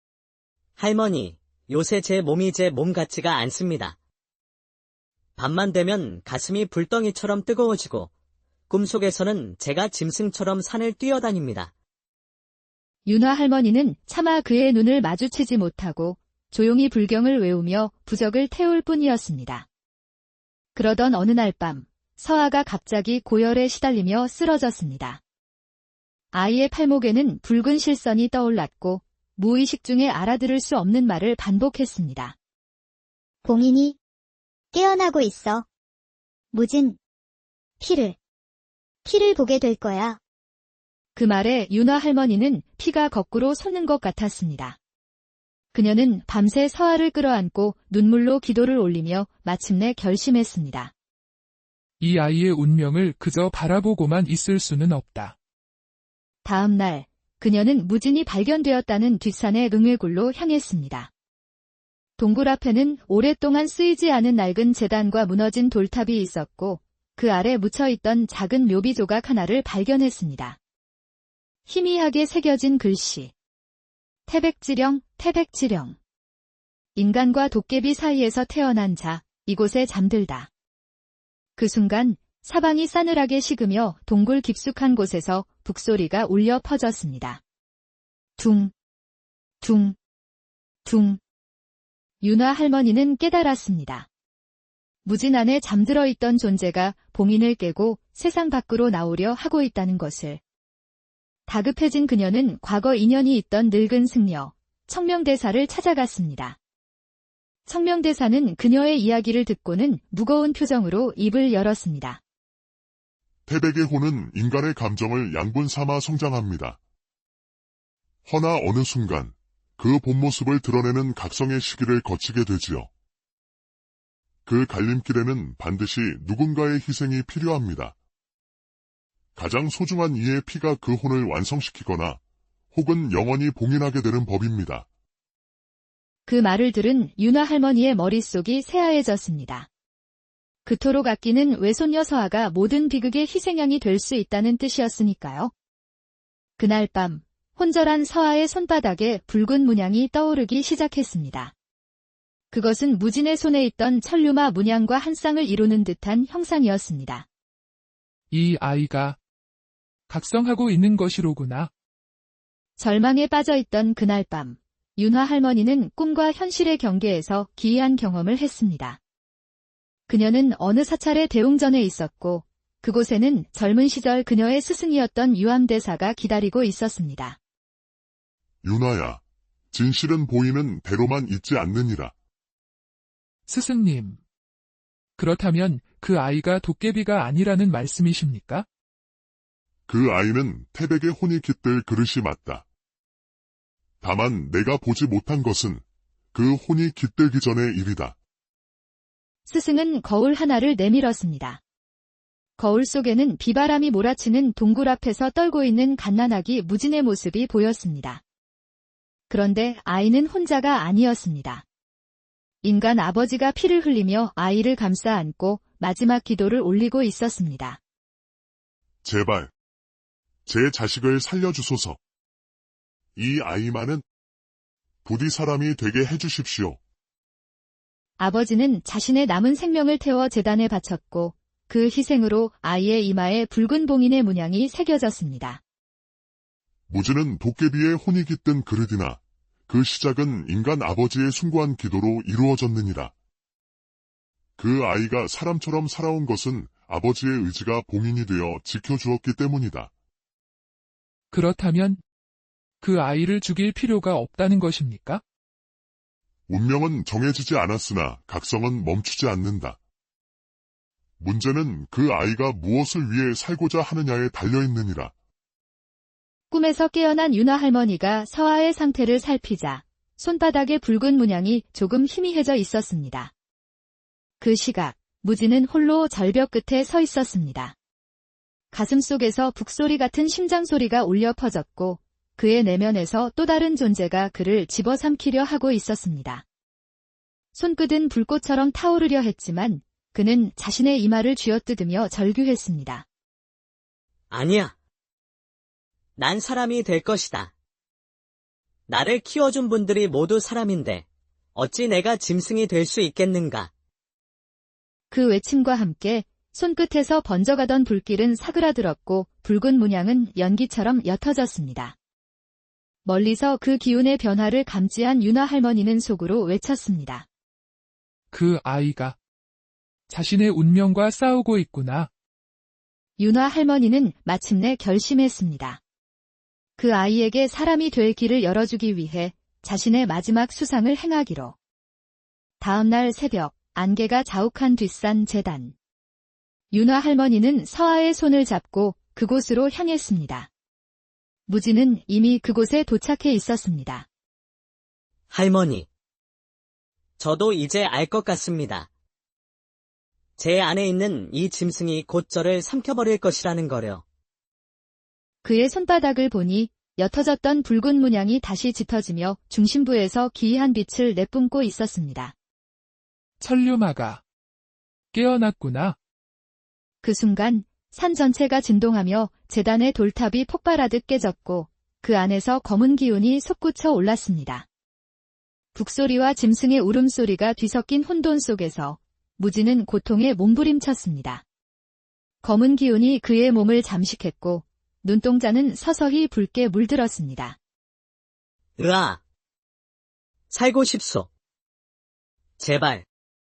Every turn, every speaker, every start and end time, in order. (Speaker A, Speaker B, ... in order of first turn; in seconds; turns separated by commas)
Speaker A: 0.8-4.0, Speaker A: 5.4-8.1, Speaker A: 8.7-11.7, Speaker B: 13.1-19.6, Speaker B: 20.7-25.2, Speaker B: 26.3-32.3, Speaker C: 33.4-34.0, Speaker C: 34.7-35.6, Speaker C: 36.5-37.0, Speaker C: 37.8-38.1, Speaker C: 39.0-40.2, Speaker B: 41.1-44.8, Speaker B: 45.7-50.9, Speaker D: 52.0-55.3, Speaker B: 56.4-61.1, Speaker B: 62.2-70.6, Speaker B: 71.7-73.3, Speaker B: 74.3-76.0, Speaker B: 77.0-80.5, Speaker B: 81.6-87.4, Speaker B: 88.4-88.7, Speaker B: 89.6-90.0, Speaker B: 90.8-91.2, Speaker B: 92.2-94.1, Speaker B: 95.0-100.4, Speaker B: 101.5-106.6, Speaker B: 107.7-112.2, Speaker E: 113.5-116.8, Speaker E: 118.2-122.9, Speaker E: 124.5-128.0, Speaker E: 129.3-132.2, Speaker E: 132.7-134.9, Speaker B: 136.2-139.7, Speaker B: 140.7-145.5, Speaker B: 146.6-151.5, Speaker B: 152.5-157.2, Speaker D: 158.3-159.2, Speaker D: 160.1-161.7, Speaker B: 162.8-169.0, Speaker B: 170.1-177.4, Speaker E: 178.6-182.1, Speaker D: 183.5-184.2, Speaker D: 185.2-188.7, Speaker E: 189.9-192.7, Speaker E: 194.0-198.2, Speaker B: 199.4-201.6, Speaker B: 202.6-208.2, Speaker B: 209.3-211.6, Speaker B: 212.6-217.8, Speaker E: 219.0-219.5, Speaker E: 220.4-222.0, Speaker E: 223.2-224.0, Speaker E: 225.0-226.8, Speaker B: 228.2-235.6, Speaker E: 236.9-243.1, Speaker E: 244.6-249.9, Speaker D: 251.3-252.0, Speaker D: 252.8-255.2, Speaker E: 256.5-259.8, Speaker E: 261.2-265.1, Speaker B: 266.5-273.3, Speaker B: 274.4-277.7, Speaker B: 278.7-286.4, Speaker B: 287.5-293.0, Speaker A: 294.3-294.7, Speaker A: 296.2-297.5, Speaker A: 298.9-303.7, Speaker B: 305.1-311.9, Speaker B: 313.0-317.2, Speaker D: 318.3-319.2, Speaker D: 320.1-322.1, Speaker B: 323.2-325.8, Speaker B: 326.8-331.5, Speaker B: 332.6-335.7, Speaker B: 336.7-340.5, Speaker B: 341.5-344.1, Speaker A: 345.3-345.9, Speaker A: 347.2-348.9, Speaker A: 350.4-354.0, Speaker B: 355.4-362.3, Speaker D: 363.4-364.2, Speaker D: 365.1-365.9, Speaker B: 367.0-374.6, Speaker B: 375.7-381.4, Speaker B: 382.4-387.6, Speaker A: 388.8-389.2, Speaker A: 390.5-391.3, Speaker A: 392.6-393.1